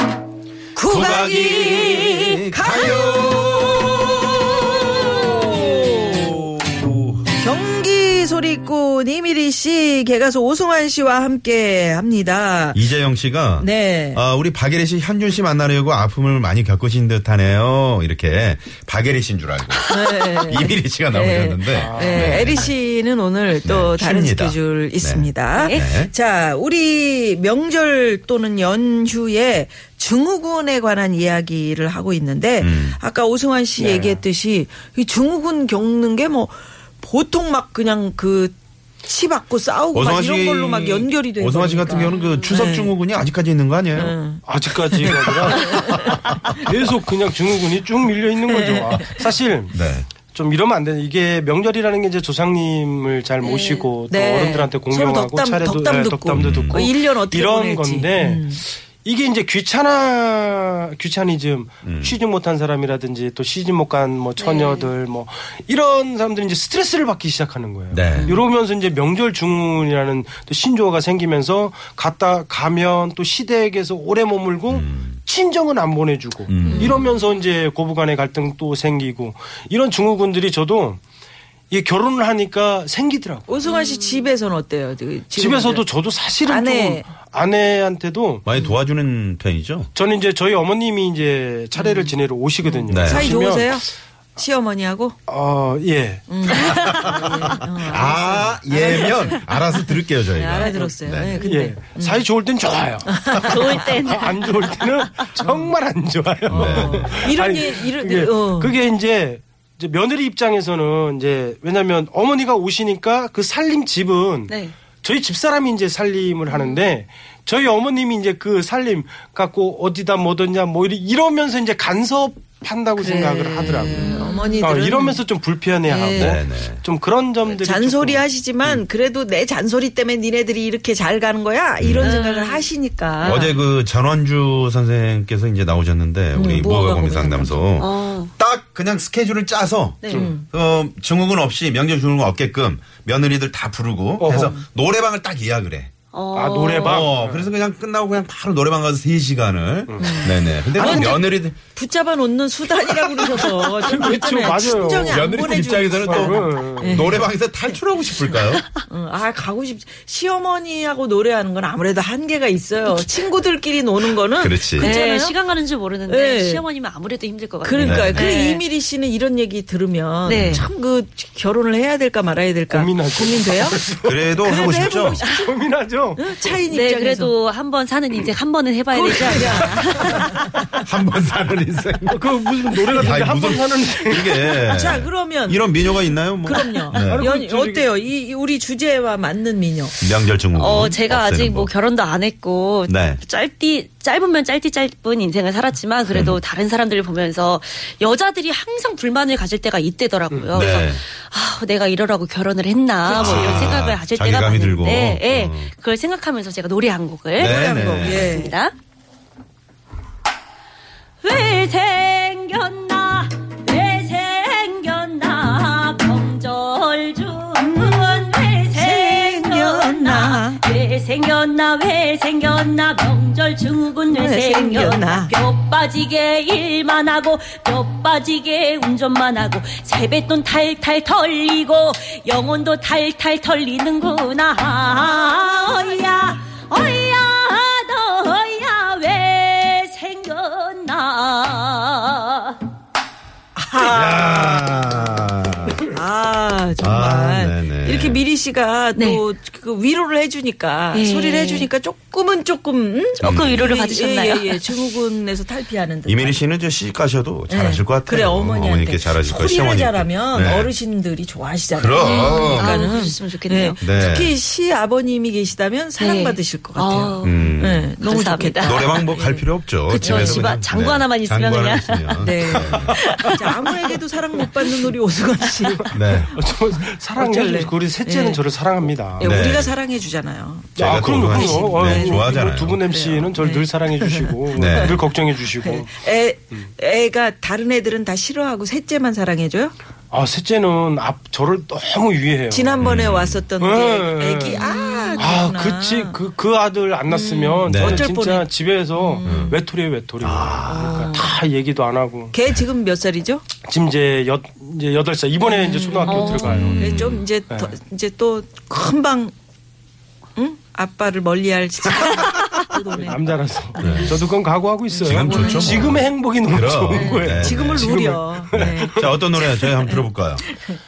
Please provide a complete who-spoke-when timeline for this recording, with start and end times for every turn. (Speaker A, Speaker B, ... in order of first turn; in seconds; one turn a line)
Speaker A: 0.7-6.4
Speaker B: 0.8-7.3
Speaker A: 7.4-12.8
Speaker B: 12.7-22.7
Speaker A: 13.6-14.2
Speaker A: 19.9-38.5
Speaker C: 21.7-22.6
Speaker B: 23.6-26.1
Speaker D: 25.5-25.9
Speaker B: 32.6-33.0
Speaker C: 33.8-34.2
Speaker A: 39.0-42.9
Speaker B: 39.9-44.1
Speaker D: 42.1-42.4
Speaker A: 43.9-46.6
Speaker C: 44.4-49.8
Speaker B: 45.1-46.1
Speaker A: 48.5-49.2
Speaker B: 49.7-50.1
Speaker C: 50.3-81.0
Speaker D: 53.4-53.9
Speaker A: 54.1-58.6
Speaker B: 56.3-56.9
Speaker B: 61.8-62.2
Speaker D: 64.4-64.9
Speaker B: 67.9-68.4
Speaker D: 68.1-68.4
Speaker B: 74.7-75.2
Speaker B: 76.5-77.0
Speaker D: 76.6-77.1
Speaker C: 81.7-83.6
Speaker A: 83.5-85.8
Speaker D: 83.6-84.2
Speaker C: 85.3-88.5
Speaker A: 86.5-87.1
Speaker B: 88.5-89.9
Speaker C: 89.9-93.8
Speaker A: 91.8-92.1
Speaker A: 92.6-95.2
Speaker B: 92.9-93.3
Speaker C: 95.3-96.8
Speaker A: 96.3-99.5
Speaker B: 96.6-101.4
Speaker D: 96.7-97.2
Speaker A: 100.3-102.2
Speaker C: 101.4-128.2
Speaker A: 103.1-103.8
Speaker D: 103.3-105.2
Speaker A: 105.4-105.7
Speaker B: 106.5-107.3
Speaker A: 106.5-108.7
Speaker D: 114.5-114.7
Speaker D: 116.5-116.8
Speaker A: 123.0-125.2
Speaker D: 123.7-124.6
Speaker A: 125.8-126.4
Speaker B: 126.1-126.8
Speaker A: 127.5-133.5
Speaker B: 131.8-132.2
Speaker D: 132.0-132.7
Speaker B: 133.2-145.9
Speaker A: 136.3-137.7
Speaker D: 137.8-138.3
Speaker D: 140.0-140.3
Speaker A: 140.1-140.4
Speaker C: 144.2-144.5
Speaker D: 146.1-147.1
Speaker C: 146.3-147.5
Speaker B: 146.8-151.6
Speaker C: 149.9-151.2
Speaker A: 150.0-151.2
Speaker A: 151.7-157.3
Speaker C: 153.2-155.4
Speaker B: 154.9-158.7
Speaker C: 156.0-157.2
Speaker A: 158.9-165.3
Speaker B: 164.4-164.9
Speaker D: 164.8-168.6
Speaker A: 166.1-166.6
Speaker A: 167.6-173.8
Speaker B: 167.8-168.3
Speaker D: 170.2-170.7
Speaker B: 170.3-170.6
Speaker C: 172.7-176.5
Speaker B: 174.0-175.2
Speaker A: 174.4-175.5
Speaker A: 176.2-177.3
Speaker D: 176.7-180.4
Speaker A: 178.9-180.5
Speaker B: 180.8-187.3
Speaker C: 182.1-184.7
Speaker A: 184.7-190.0
Speaker C: 186.9-187.9
Speaker B: 190.0-191.7
Speaker D: 190.5-208.7
Speaker B: 192.9-193.2
Speaker B: 196.1-196.4
Speaker C: 200.3-200.7
Speaker B: 200.5-201.0
Speaker A: 203.1-203.6
Speaker B: 203.1-205.7
Speaker B: 207.4-208.3
Speaker A: 207.4-208.5
Speaker D: 211.2-242.6
Speaker A: 217.6-220.6
Speaker A: 224.1-225.3
Speaker A: 243.6-244.9
Speaker B: 243.8-245.9
Speaker A: 245.8-256.4
Speaker B: 246.8-248.2
Speaker D: 249.0-249.2
Speaker D: 250.9-251.7
Speaker D: 253.2-254.6
Speaker B: 253.2-253.8
Speaker B: 256.1-260.7
Speaker A: 257.5-269.4
Speaker B: 261.7-262.8
Speaker D: 262.0-263.8
Speaker B: 263.8-264.3
Speaker D: 266.0-269.1
Speaker B: 267.2-267.9
Speaker B: 268.6-273.0
Speaker D: 269.9-273.4
Speaker A: 269.9-270.5
Speaker A: 272.2-276.2
Speaker B: 275.9-276.3
Speaker C: 275.9-279.4
Speaker A: 277.2-278.4
Speaker A: 279.2-284.9
Speaker B: 279.2-279.7
Speaker B: 280.8-282.8
Speaker C: 280.8-285.9
Speaker B: 284.5-285.1
Speaker A: 285.6-289.7
Speaker C: 290.1-292.9
Speaker A: 292.5-296.2
Speaker B: 292.8-293.4
Speaker C: 293.6-302.3
Speaker A: 297.1-299.6
Speaker B: 297.7-298.1
Speaker B: 299.2-299.6
Speaker B: 300.2-301.1
Speaker A: 300.6-301.3
Speaker A: 302.3-303.4
Speaker C: 303.6-306.8
Speaker A: 305.4-309.3
Speaker D: 306.1-306.9
Speaker B: 306.4-307.2
Speaker A: 310.4-314.1
Speaker C: 312.9-319.1
Speaker B: 313.8-314.2
Speaker A: 314.9-315.9
Speaker B: 315.0-317.9
Speaker D: 315.3-315.9
Speaker D: 316.9-317.3
Speaker A: 317.4-320.8
Speaker B: 318.5-320.4